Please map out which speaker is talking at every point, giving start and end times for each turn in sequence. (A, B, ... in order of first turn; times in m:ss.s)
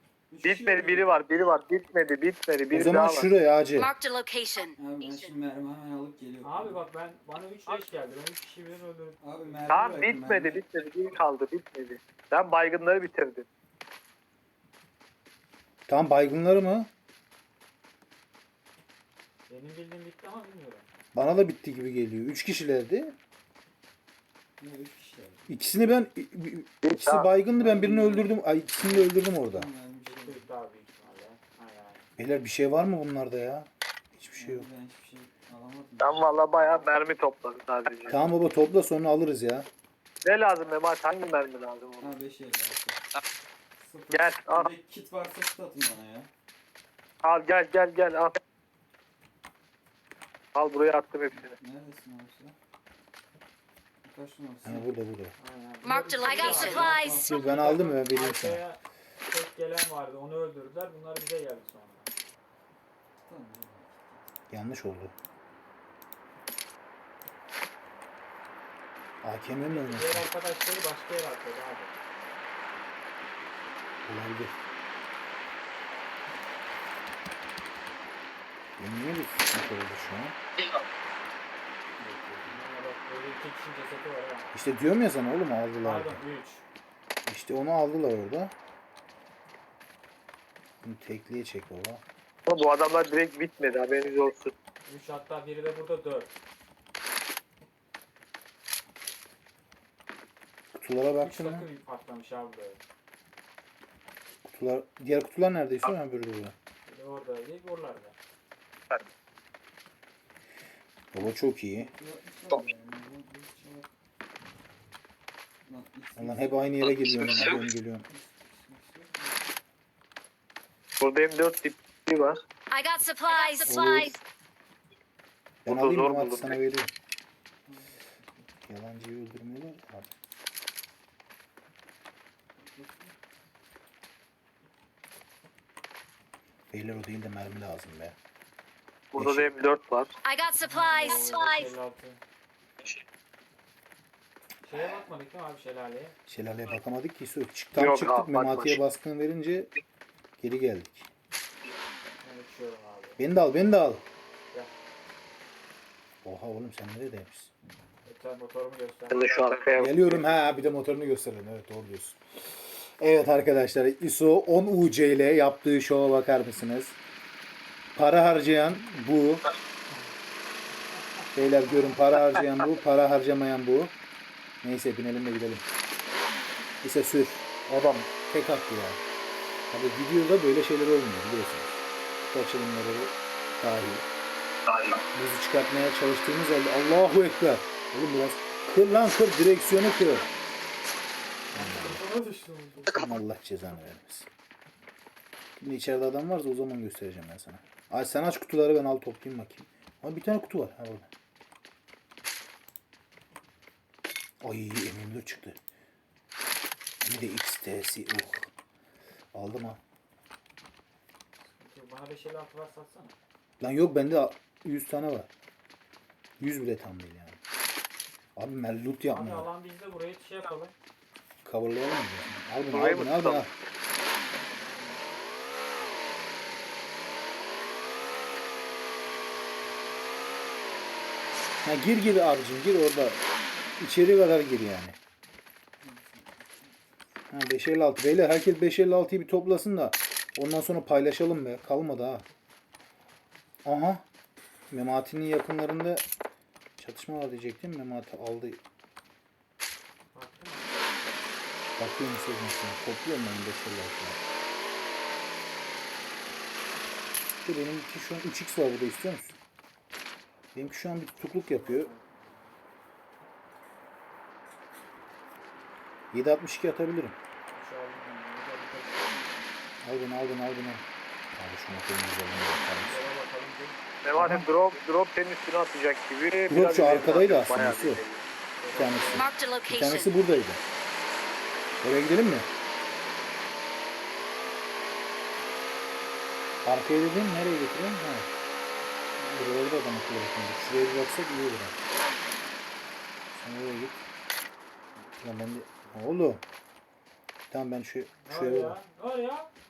0:00.3-0:01.0 A
0:00.4-0:03.3 B
0:02.7-0:03.9 C
0:03.8-0:05.3 D
0:04.8-0:06.8 A
0:06.4-0:09.8 E
0:09.2-0:10.6 A
0:09.7-0:13.5 B
0:15.9-0:16.9 C
0:19.5-0:20.9 E
0:21.1-0:23.2 C
0:24.6-0:25.6 A
0:25.5-0:29.7 C
0:26.8-0:27.3 B
0:27.6-0:30.4 A
0:30.1-0:32.0 E
0:32.2-0:34.7 C
0:34.3-0:36.2 A
0:36.0-0:38.2 B
0:38.1-0:39.7 C
0:40.2-0:42.2 B
0:42.0-0:43.0 A
0:43.8-0:46.3 A
0:44.1-0:44.7 B
0:47.2-0:48.4 B
0:50.6-0:51.6 B
0:51.6-0:52.6 A
0:54.1-0:54.9 A
0:54.6-0:55.4 C
0:55.4-1:02.1 E
0:55.8-0:57.4 D
0:56.4-0:57.4 A
0:57.1-0:58.6 C
1:03.3-1:04.2 A
1:04.5-1:05.1 C
1:09.2-1:10.3 C
1:09.6-1:12.0 E
1:14.0-1:14.5 C
1:18.8-1:20.4 C
1:22.0-1:22.5 A
1:22.5-1:24.5 E
1:24.5-1:26.2 C
1:25.8-1:26.6 E
1:27.3-1:28.5 C
1:30.8-1:32.0 C
1:32.5-1:34.5 B
1:34.8-1:36.3 E
1:40.7-1:41.7 C
1:41.2-1:42.8 E
1:44.4-1:46.5 C
1:46.8-1:48.2 E
1:51.1-1:51.9 C
1:51.9-1:53.9 A
1:55.7-1:56.7 A
1:56.2-1:58.1 C
1:58.2-1:59.4 A
2:01.0-2:02.4 B
2:02.7-2:04.2 D
2:03.7-2:04.2 C
2:05.7-2:06.6 B
2:05.7-2:06.9 C
2:07.7-2:08.0 A
2:08.6-2:10.1 C
2:12.7-2:13.1 A
2:16.7-2:18.2 C
2:19.1-2:20.1 B
2:19.2-2:19.5 C
2:20.2-2:21.7 D
2:20.6-2:22.2 E
2:24.6-2:26.1 E
2:26.3-2:29.7 C
2:27.8-2:28.8 B
2:30.4-2:31.1 C
2:32.2-2:33.2 E
2:33.2-2:34.0 C
2:36.2-2:37.5 C
2:38.0-2:39.3 E
2:39.1-2:40.3 B
2:39.8-2:47.0 C
2:48.0-2:49.4 C
2:51.3-2:53.9 C
2:54.6-2:55.6 C
2:56.8-2:59.0 C
2:59.7-3:04.1 C
3:05.1-3:10.3 C
3:11.5-3:13.0 E
3:11.5-3:12.0 C
3:12.9-3:14.3 C
3:15.6-3:21.1 C
3:24.4-3:25.6 C
3:27.0-3:28.5 C
3:29.3-3:29.8 C
3:31.4-3:33.2 E
3:33.6-3:35.3 C
3:36.4-3:37.4 C
3:38.4-3:39.5 C
3:39.0-3:40.7 E
3:41.4-3:43.5 C
3:42.7-3:43.5 B
3:44.3-3:44.8 E
3:51.6-3:53.2 C
3:53.8-3:55.0 C
3:55.8-3:56.8 A
3:57.3-4:02.2 C
4:03.6-4:04.0 C
4:04.7-4:06.0 C
4:06.8-4:08.6 C
4:10.1-4:11.2 E
4:11.8-4:14.2 C
4:17.4-4:19.4 C
4:20.5-4:21.9 C
4:21.5-4:22.5 E
4:26.1-4:27.2 C
4:27.5-4:29.4 E
4:29.8-4:33.0 C
4:32.8-4:33.8 E
4:34.0-4:38.2 B
4:34.2-4:34.4 C
4:36.5-4:38.0 C
4:38.6-4:39.3 E
4:38.7-4:40.6 C
4:39.1-4:40.1 D
4:41.8-4:42.5 C
4:46.6-4:48.3 C
4:49.2-4:51.8 C
4:53.3-4:54.0 C
4:55.2-4:56.4 C
4:57.5-4:58.8 C
4:58.2-4:59.5 E